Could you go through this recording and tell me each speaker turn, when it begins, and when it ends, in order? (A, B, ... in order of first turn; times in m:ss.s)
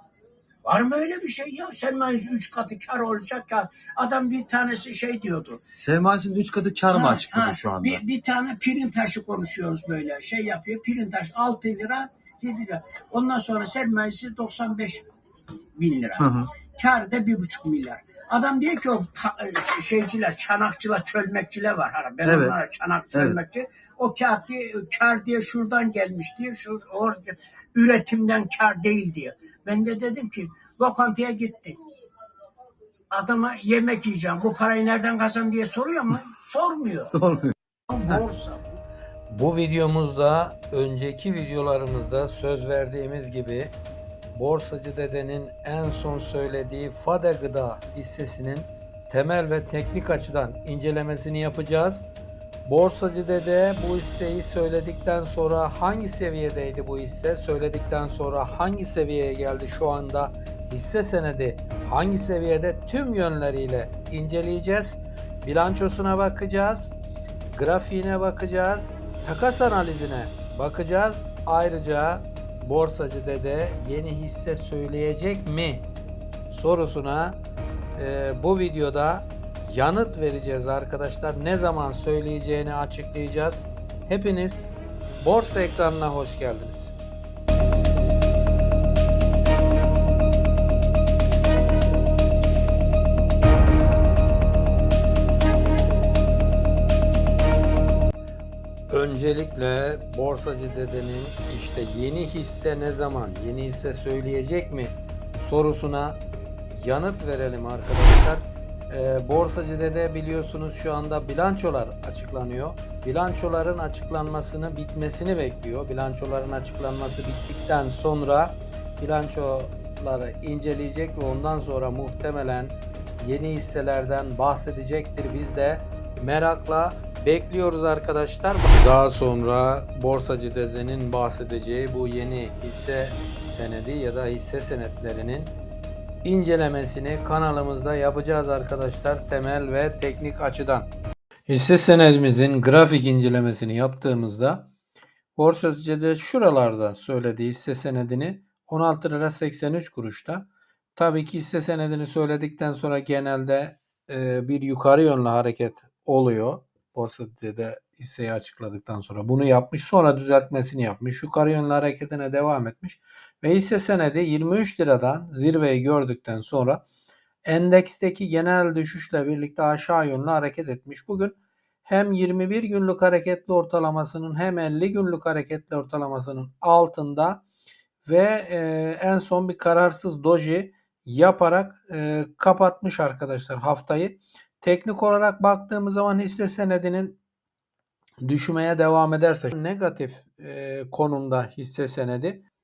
0:00.6-0:05.7 A
0:05.8-0:08.0 B
0:06.9-0:15.1 A
0:15.8-0:31.8 A
0:16.2-0:16.5 B
0:22.2-0:22.6 B
0:33.1-0:37.1 A
0:37.1-0:37.5 B
0:37.9-0:38.8 A
0:39.3-0:43.8 C
0:44.3-0:52.1 C
0:52.6-1:07.0 C
1:07.5-1:15.9 C
1:16.5-1:17.4 C
1:18.0-1:27.0 C
1:38.9-2:15.6 C
2:16.2-2:20.9 C
2:21.5-2:24.7 C
2:25.4-2:46.8 C
2:47.4-2:57.4 C
2:58.0-3:07.2 C
3:08.2-3:12.4 C